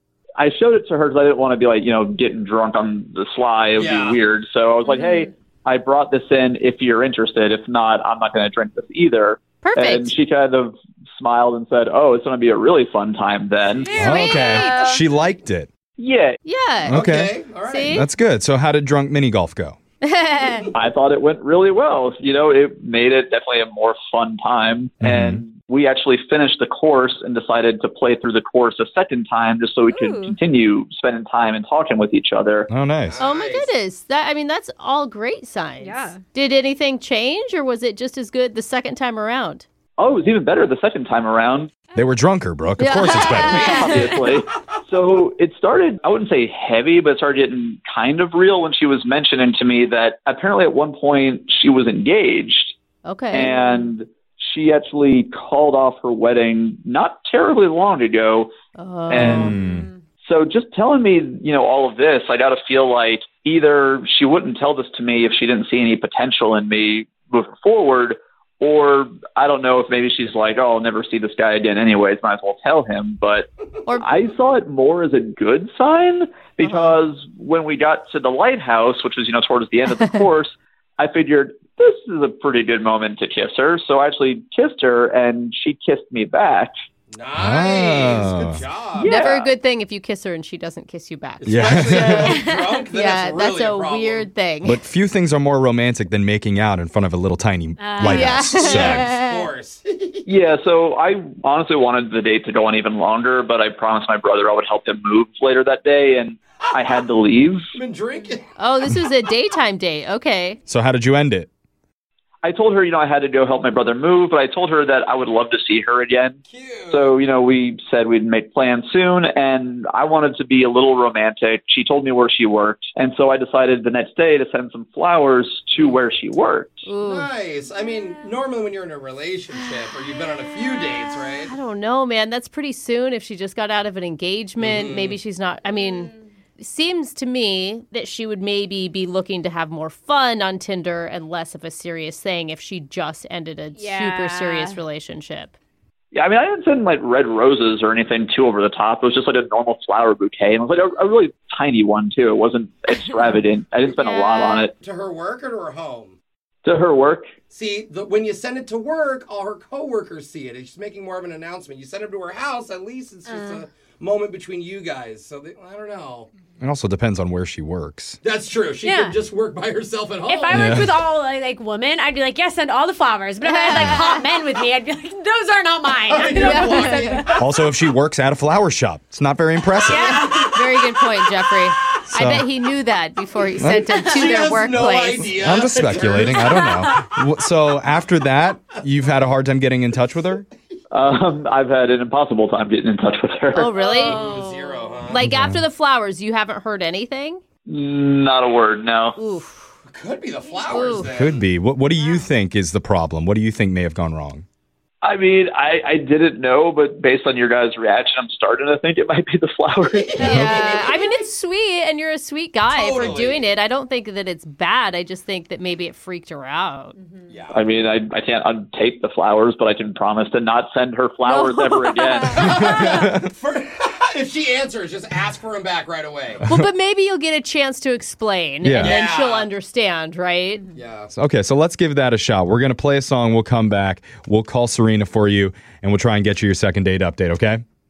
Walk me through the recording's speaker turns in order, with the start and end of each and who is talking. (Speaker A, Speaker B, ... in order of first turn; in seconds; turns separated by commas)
Speaker A: 0.4-14.0, Speaker B: 3.8-4.2, Speaker C: 4.8-5.3, Speaker D: 9.6-10.2, Speaker B: 13.6-14.3, Speaker C: 13.8-15.2, Speaker E: 13.9-15.7, Speaker D: 14.1-14.9, Speaker A: 16.0-16.4, Speaker D: 16.4-17.1, Speaker B: 16.9-18.1, Speaker E: 16.9-17.4, Speaker D: 17.7-18.1, Speaker E: 17.9-19.8, Speaker D: 20.0-20.7, Speaker A: 20.7-32.7, Speaker E: 25.0-25.4, Speaker C: 29.9-30.4, Speaker E: 32.7-33.2, Speaker B: 33.1-33.7, Speaker D: 33.2-39.6, Speaker C: 35.8-36.2, Speaker A: 40.0-41.8, Speaker E: 42.0-43.8, Speaker D: 42.8-44.1, Speaker C: 43.1-44.0, Speaker A: 43.4-52.8, Speaker D: 53.0-53.5, Speaker A: 53.3-58.5, Speaker D: 58.8-59.6, Speaker A: 59.1-59.6, Speaker E: 59.2-59.9, Speaker C: 59.4-60.0, Speaker A: 60.2-86.7, Speaker D: 76.6-77.0, Speaker B: 87.1-89.5, Speaker E: 87.4-88.7, Speaker A: 89.0-89.5, Speaker D: 89.0-92.3, Speaker B: 91.5-94.3, Speaker E: 91.5-92.3, Speaker C: 92.3-92.8, Speaker D: 92.9-94.8, Speaker E: 94.6-99.1, Speaker C: 97.8-99.1, Speaker D: 98.0-99.3, Speaker B: 98.5-100.3, Speaker A: 100.3-107.7, Speaker B: 107.7-108.5, Speaker D: 108.6-110.6, Speaker E: 110.7-111.5, Speaker A: 112.4-126.9, Speaker B: 116.5-117.2, Speaker D: 126.9-127.3, Speaker B: 127.0-131.5, Speaker D: 131.4-145.5, Speaker B: 134.6-135.2, Speaker C: 135.8-136.2, Speaker C: 143.8-144.8, Speaker A: 146.1-154.7, Speaker C: 153.9-154.7, Speaker B: 154.7-156.2, Speaker A: 156.7-157.3, Speaker B: 157.5-166.3, Speaker C: 163.3-163.6, Speaker E: 166.6-168.2, Speaker B: 168.2-170.9, Speaker C: 168.8-169.2, Speaker C: 170.2-177.3, Speaker E: 170.5-170.9, Speaker D: 173.5-174.1, Speaker B: 176.0-177.4, Speaker D: 176.4-177.2, Speaker E: 177.4-180.2, Speaker C: 179.9-180.6, Speaker B: 180.0-180.5, Speaker D: 180.3-185.4, Speaker E: 182.1-182.5, Speaker E: 183.6-183.9, Speaker B: 183.9-186.7, Speaker E: 185.4-190.5, Speaker C: 186.3-187.1, Speaker A: 190.9-193.8, Speaker D: 193.5-194.2, Speaker B: 193.8-195.3, Speaker C: 193.8-195.1, Speaker D: 195.1-197.4, Speaker E: 195.2-195.6, Speaker A: 197.7-199.2, Speaker D: 199.2-199.7, Speaker B: 199.9-201.5, Speaker D: 200.7-201.1, Speaker E: 201.2-204.4, Speaker A: 205.0-210.3, Speaker B: 209.8-211.2, Speaker D: 210.2-216.9, Speaker E: 210.2-210.6, Speaker B: 212.7-213.5, Speaker C: 217.0-217.4, Speaker B: 217.3-217.7, Speaker A: 217.5-222.3, Speaker C: 221.3-223.1, Speaker B: 222.3-226.4, Speaker E: 222.7-223.2, Speaker D: 226.4-230.7, Speaker E: 228.6-229.0, Speaker B: 228.8-229.5, Speaker B: 230.7-231.1, Speaker E: 231.1-237.6